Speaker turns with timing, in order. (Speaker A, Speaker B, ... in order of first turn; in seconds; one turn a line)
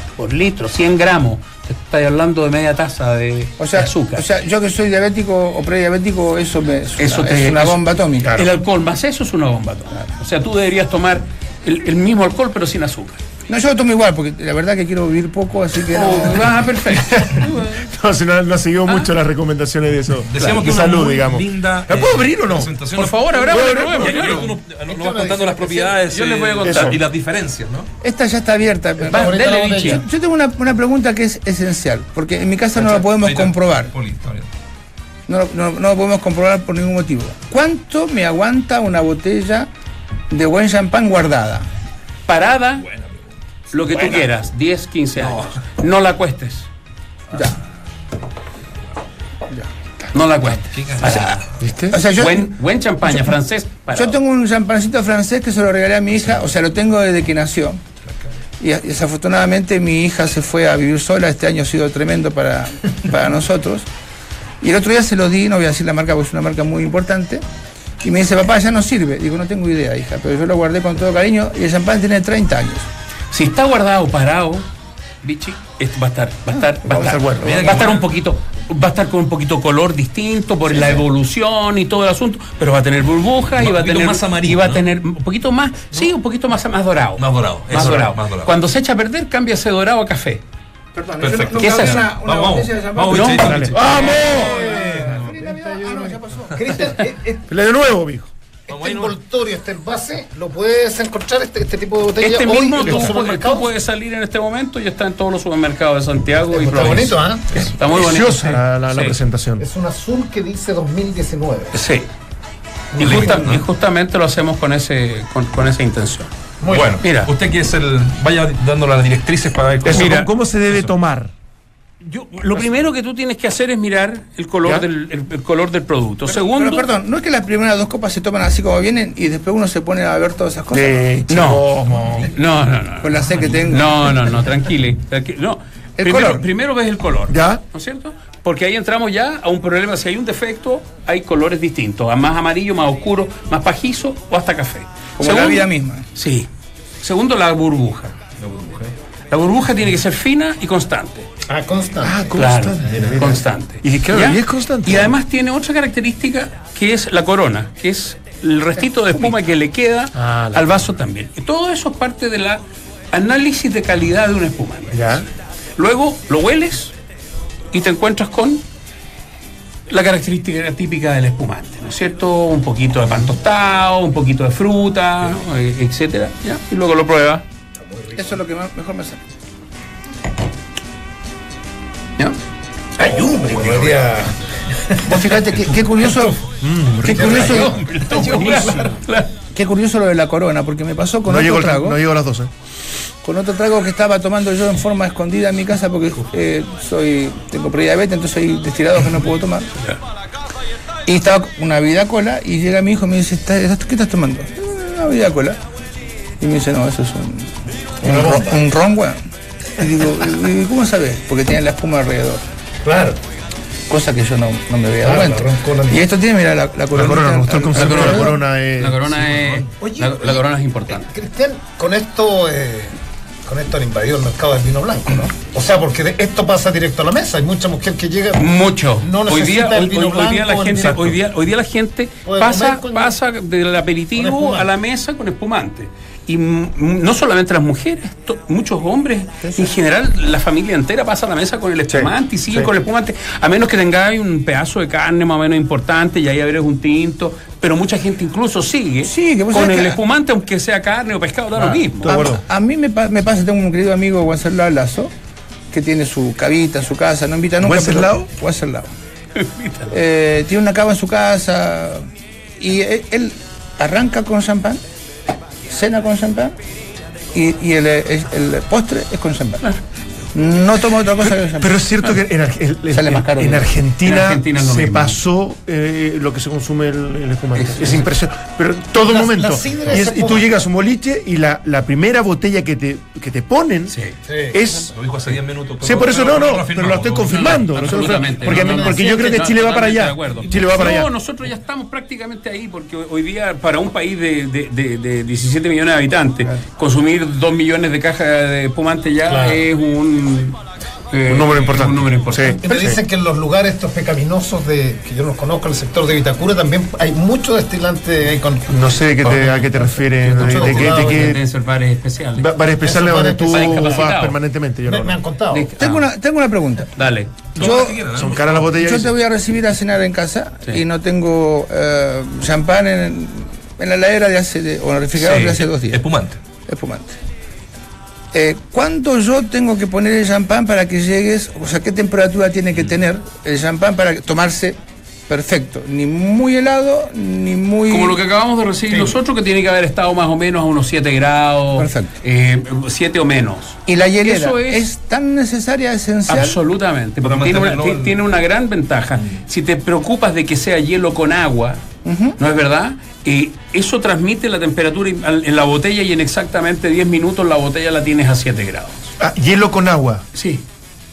Speaker A: 0.2-4.2
Speaker B: 3.6-8.3
Speaker A: 7.0-7.8
Speaker C: 8.2-8.5
Speaker A: 8.3-13.2
Speaker B: 13.5-16.5
Speaker A: 15.9-17.8
Speaker C: 17.0-24.4
Speaker D: 20.3-27.9
Speaker A: 22.9-24.5
Speaker E: 24.9-26.0
Speaker A: 26.1-26.9
Speaker C: 26.6-27.0
Speaker B: 28.0-33.9
Speaker E: 29.0-30.0
Speaker A: 29.1-30.0
Speaker D: 32.8-34.5
Speaker B: 35.3-39.7
Speaker B: 40.3-41.7
Speaker A: 42.3-42.9
Speaker A: 43.7-46.7
Speaker D: 43.9-44.2
Speaker D: 45.1-45.6
Speaker A: 50.1-51.5
Speaker D: 50.7-51.4
Speaker C: 51.6-52.0
Speaker B: 51.9-52.5
Speaker A: 52.1-54.2
Speaker B: 53.9-57.8
Speaker B: 58.6-63.9
Speaker B: 64.6-67.4
Speaker B: 68.0-72.9
Speaker A: 73.3-74.7
Speaker A: 75.2-90.4
Speaker C: 76.9-77.9
Speaker D: 77.3-78.1
Speaker D: 83.6-84.8
Speaker D: 87.2-88.5
Speaker B: 91.0-96.9
Speaker D: 91.2-94.2
Speaker A: 91.5-92.1
Speaker A: 93.1-93.5
Speaker C: 93.4-94.8
Speaker E: 94.0-97.5
Speaker C: 97.5-98.3
Speaker E: 98.7-103.7
Speaker D: 98.7-99.2
Speaker A: 102.2-109.2
Speaker E: 106.5-107.6
Speaker C: 107.5-109.6
Speaker E: 109.6-111.8
Speaker A: 111.7-112.1
Speaker E: 112.9-113.5
Speaker A: 113.0-116.3
Speaker D: 113.0-113.6
Speaker E: 116.6-117.0
Speaker D: 116.7-120.9
Speaker A: 117.0-117.3
Speaker C: 119.8-121.3
Speaker A: 122.0-126.9
Speaker B: 126.3-131.1
Speaker C: 130.7-132.3
Speaker A: 131.3-131.7
Speaker A: 132.3-146.5
Speaker B: 133.0-134.1
Speaker B: 136.0-136.4
Speaker C: 137.3-137.6
Speaker B: 145.2-146.1
Speaker A: 147.0-148.2
Speaker D: 148.4-148.9
Speaker A: 149.3-151.3
Speaker E: 151.5-152.3
Speaker C: 152.0-155.2
Speaker A: 152.3-165.1
Speaker C: 160.2-160.9
Speaker C: 164.9-165.2
Speaker A: 165.8-166.9
Speaker A: 167.7-168.6
Speaker A: 169.9-177.4
Speaker B: 178.1-179.2
Speaker E: 183.0-185.0
Speaker B: 185.1-186.4
Speaker C: 186.6-187.7
Speaker E: 187.0-189.0
Speaker A: 187.1-189.3
Speaker B: 187.1-187.8
Speaker B: 189.5-192.0
Speaker C: 191.3-192.5
Speaker B: 193.2-199.7
Speaker B: 201.1-205.6
Speaker B: 206.4-209.2
Speaker E: 208.0-208.5
Speaker B: 209.8-212.4
Speaker E: 212.8-213.2
Speaker B: 213.9-218.3
Speaker E: 215.0-216.0
Speaker C: 216.9-219.6
Speaker A: 217.7-221.1
Speaker E: 219.8-231.2
Speaker A: 228.3-252.3
Speaker C: 230.8-231.1
Speaker E: 232.2-233.2
Speaker E: 234.2-234.7
Speaker E: 239.4-239.7
Speaker C: 241.9-242.7
Speaker B: 249.0-250.0
Speaker C: 251.6-252.4
Speaker B: 252.0-255.1
Speaker B: 255.7-258.9
Speaker C: 257.6-258.3
Speaker A: 259.3-259.9
Speaker B: 259.9-262.1
Speaker B: 262.6-264.8
Speaker B: 265.7-266.5
Speaker B: 267.3-269.7
Speaker B: 270.3-271.8
Speaker C: 271.6-283.9
Speaker B: 272.9-273.7
Speaker A: 274.0-275.2
Speaker E: 279.0-280.5
Speaker A: 283.9-284.1
Speaker E: 284.3-284.6
Speaker C: 284.5-284.9
Speaker D: 284.9-287.9
Speaker C: 285.8-291.1
Speaker A: 287.3-300.6
Speaker E: 288.5-289.1
Speaker E: 299.3-299.6
Speaker A: 301.1-302.6
Speaker C: 301.2-303.0
Speaker E: 302.6-311.4
Speaker C: 308.7-311.4
Speaker A: 310.3-312.6
Speaker C: 312.4-315.2
Speaker E: 312.8-314.1
Speaker A: 313.5-314.4
Speaker E: 314.8-315.7
Speaker A: 315.5-316.1
Speaker B: 315.8-316.9
Speaker A: 316.9-317.5
Speaker B: 317.5-318.0
Speaker D: 317.6-318.7
Speaker C: 317.6-319.1
Speaker B: 318.8-326.0
Speaker A: 325.2-325.6
Speaker D: 325.8-326.4
Speaker B: 326.7-327.2
Speaker B: 328.3-334.8
Speaker B: 335.3-338.2
Speaker A: 337.9-344.9
Speaker B: 341.8-342.1
Speaker B: 343.9-346.6
Speaker A: 346.3-351.8
Speaker D: 347.2-348.2
Speaker B: 352.0-352.4
Speaker A: 352.4-359.1
Speaker C: 359.2-360.2
Speaker A: 360.3-360.6